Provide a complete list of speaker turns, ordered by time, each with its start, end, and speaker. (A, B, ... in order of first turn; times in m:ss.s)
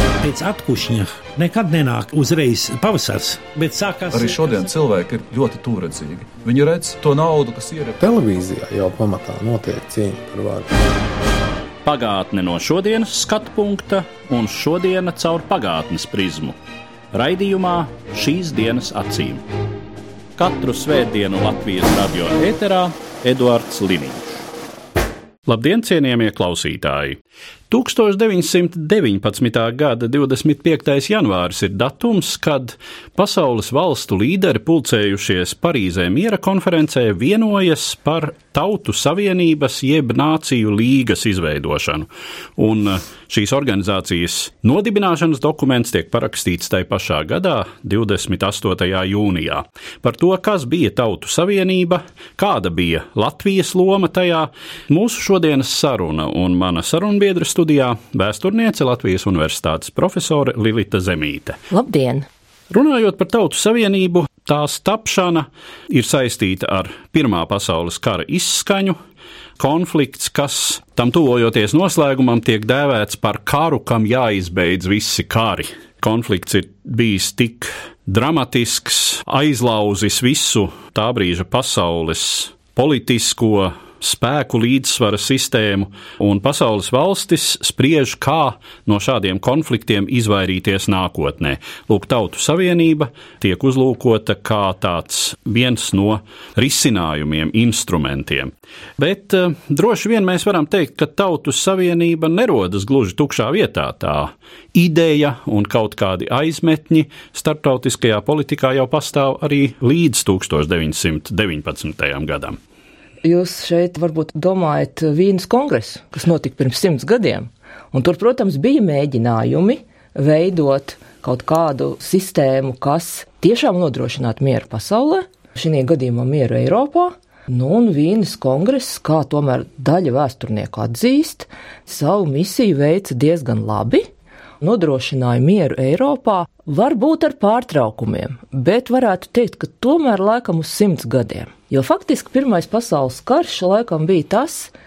0:00.2-0:04.3 A
0:04.1-0:08.0 B
0:08.0-0:10.7 C
0:11.8-0:16.6 D
0:17.1-0:19.4 D
0:20.4-0:24.4 D
0:25.4-0:27.2 D
0:27.7-1:01.6 D
1:01.7-1:02.3 E
1:02.7-1:09.0 D
1:09.6-1:52.6 D
1:53.2-2:14.1 E
2:14.6-2:24.7 E